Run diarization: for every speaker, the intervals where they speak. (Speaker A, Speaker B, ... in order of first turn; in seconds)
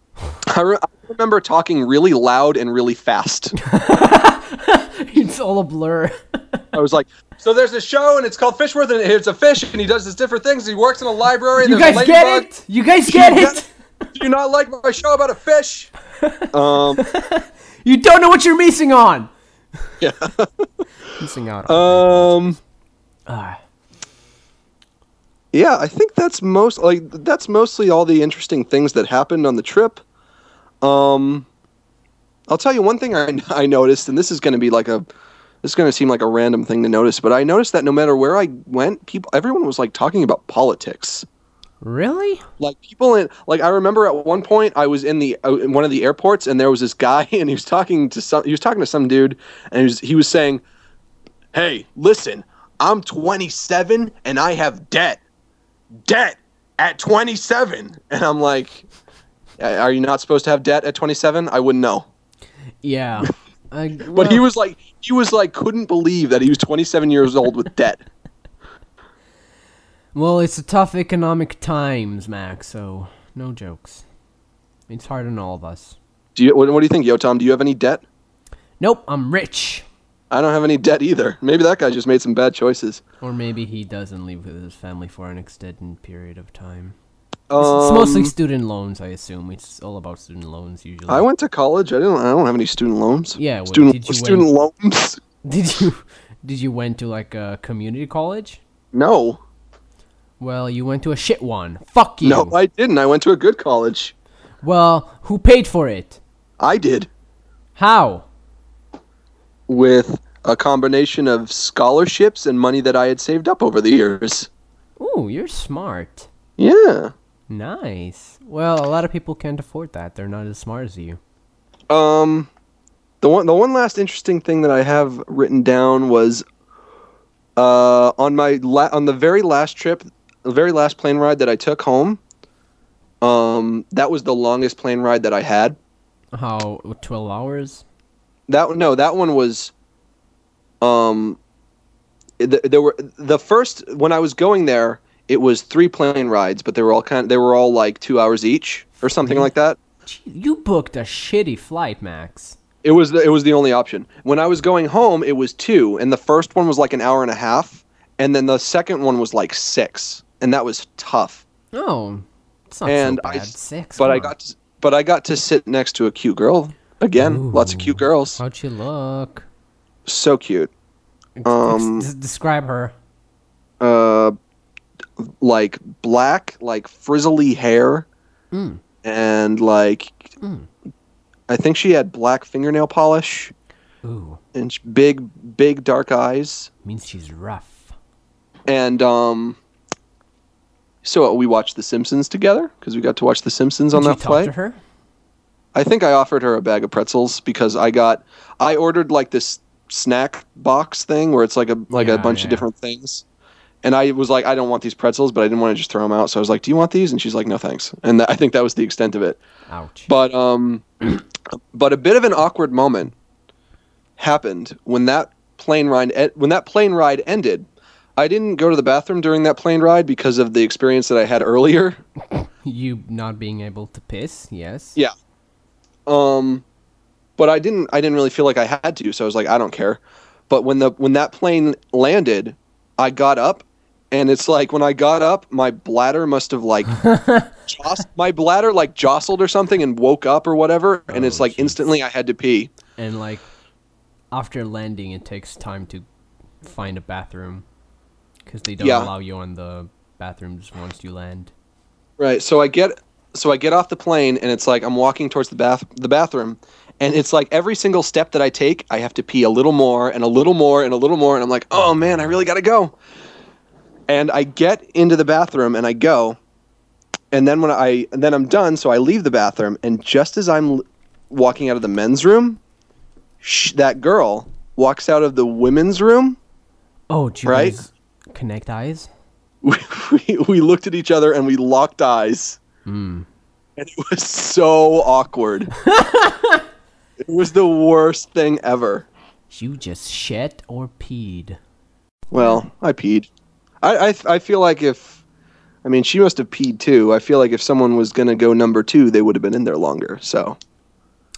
Speaker A: 0.5-3.5, 6.7-12.5, 13.1-13.6, 14.1-15.9, 16.5-17.0, 20.0-20.7, 21.7-22.6, 25.5-30.0, 30.8-31.5, 32.5-35.1, 35.6-41.3, 42.6-50.6, 51.5-55.2, 56.0-58.9, 59.6-62.1, 64.1-68.0, 76.4-78.0, 80.3-83.0, 87.5-88.3, 91.1-95.2, 98.9-99.4, 102.2-104.1, 106.6-107.1, 109.7-114.5, 116.6-117.1, 121.9-122.5, 123.2-126.4, 127.6-132.2, 133.2-135.8, 138.5-139.7, 140.8-141.4, 142.4-149.8, 152.8-161.4, 162.9-168.4, 170.1-170.7, 171.4-172.1, 173.8-174.3, 175.2-178.1, 179.0-180.2, 181.5-183.5, 184.5-186.7, 188.7-189.6, 191.0-194.5, 195.7-203.2, 203.8-209.4, 210.1-210.9, 211.7-213.1, 214.2-222.0, 226.1-226.6, 227.4-237.0, 237.7-242.7, 248.8-249.1, 252.2-262.9, 264.1-266.4, 267.3-272.6, 273.4-276.4, 277.5-277.8, 279.6-282.6, 283.8-285.7, 287.2-289.1, 292.3-293.3, 293.8-295.2, 295.8-300.6
Speaker B: 3.6-6.7, 11.6-13.7, 16.2-19.3, 21.1-22.4, 23.3-23.6, 41.8-42.5, 62.8-64.5, 70.1-74.0, 74.9-76.0, 78.8-79.8, 83.2-87.0, 87.6-91.3, 93.4-94.5, 95.4-98.6, 100.4-102.6, 104.6-106.2, 107.8-108.3, 115.0-116.3, 117.5-121.2, 136.3-137.8, 149.2-149.5, 150.1-152.6, 161.7-164.3, 167.2-169.5, 171.4-172.9, 178.5-178.8, 180.4-180.7, 184.0-184.4, 186.8-187.9, 193.9-194.8, 201.9-202.7, 209.7-210.1, 222.3-225.0, 236.9-237.5, 241.1-241.8, 243.0-243.4, 244.3-246.0, 246.6-247.7, 248.5-251.5, 277.1-279.1, 282.9-283.3, 285.9-286.6, 289.5-291.6